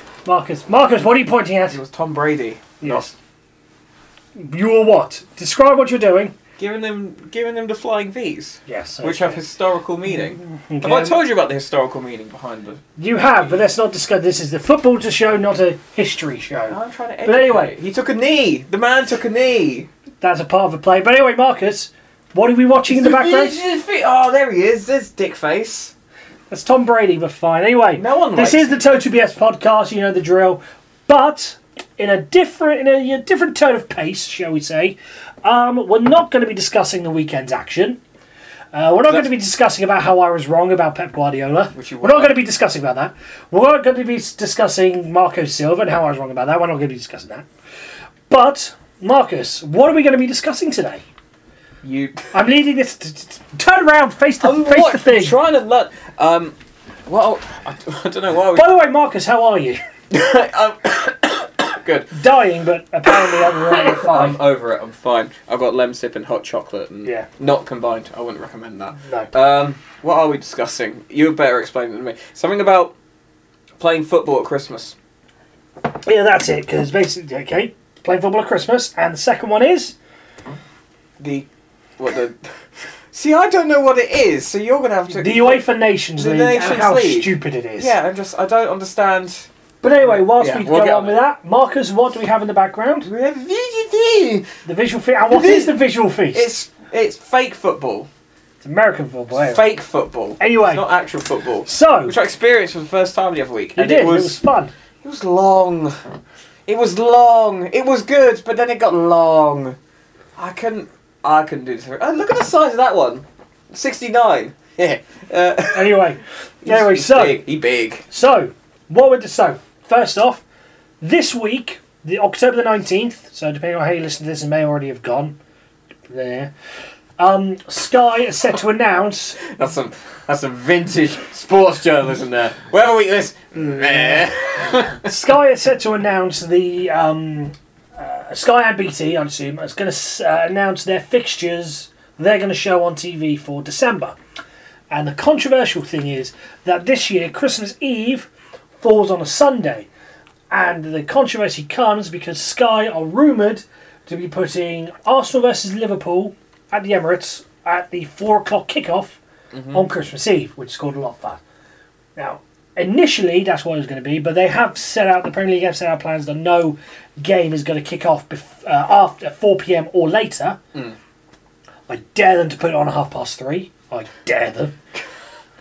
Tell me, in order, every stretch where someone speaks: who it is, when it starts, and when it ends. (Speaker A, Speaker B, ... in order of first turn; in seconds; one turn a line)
Speaker A: 0.2-1.8
Speaker B: 1.7-3.1
Speaker A: 2.8-3.1
Speaker A: 4.4-6.4
Speaker B: 6.6-12.8
Speaker A: 8.7-9.4
Speaker A: 10.3-11.2
Speaker A: 13.0-17.8
Speaker B: 16.7-19.9
Speaker A: 20.2-23.6
Speaker B: 22.9-25.9
Speaker A: 26.5-38.0
Speaker B: 28.0-28.7
Speaker A: 38.7-47.5
Speaker B: 41.7-42.4
Speaker A: 48.3-51.0
Speaker B: 51.8-52.2
Speaker A: 52.3-55.4
Speaker B: 54.4-56.5
Speaker B: 57.1-58.7
Speaker A: 58.5-59.8
Speaker B: 60.1-62.3
Speaker A: 62.1-64.4
Speaker B: 63.3-73.0
Speaker B: 73.8-75.0
Speaker A: 76.1-80.0
Speaker B: 81.2-82.4
Speaker B: 83.1-85.6
Speaker A: 85.2-88.0
Speaker B: 86.2-89.5
Speaker A: 89.8-93.1
Speaker B: 90.0-91.2
Speaker B: 93.0-94.5
Speaker A: 94.7-96.5
Speaker B: 95.3-98.1
Speaker A: 98.6-99.7
Speaker B: 99.3-104.4
Speaker A: 100.4-100.8
Speaker A: 101.7-102.2
Speaker A: 103.8-104.7
Speaker B: 105.0-106.0
Speaker B: 106.7-109.8
Speaker B: 110.4-116.1
Speaker A: 115.7-117.4
Speaker B: 116.6-118.1
Speaker A: 118.1-120.4
Speaker A: 121.0-125.4
Speaker A: 126.1-126.5
Speaker A: 127.2-129.4
Speaker B: 129.4-135.1
Speaker A: 134.9-144.2
Speaker A: 144.9-148.3
Speaker A: 148.8-149.9
Speaker A: 150.5-159.2
Speaker B: 159.5-159.8
Speaker A: 159.7-161.4
Speaker A: 162.2-170.6
Speaker A: 171.9-174.8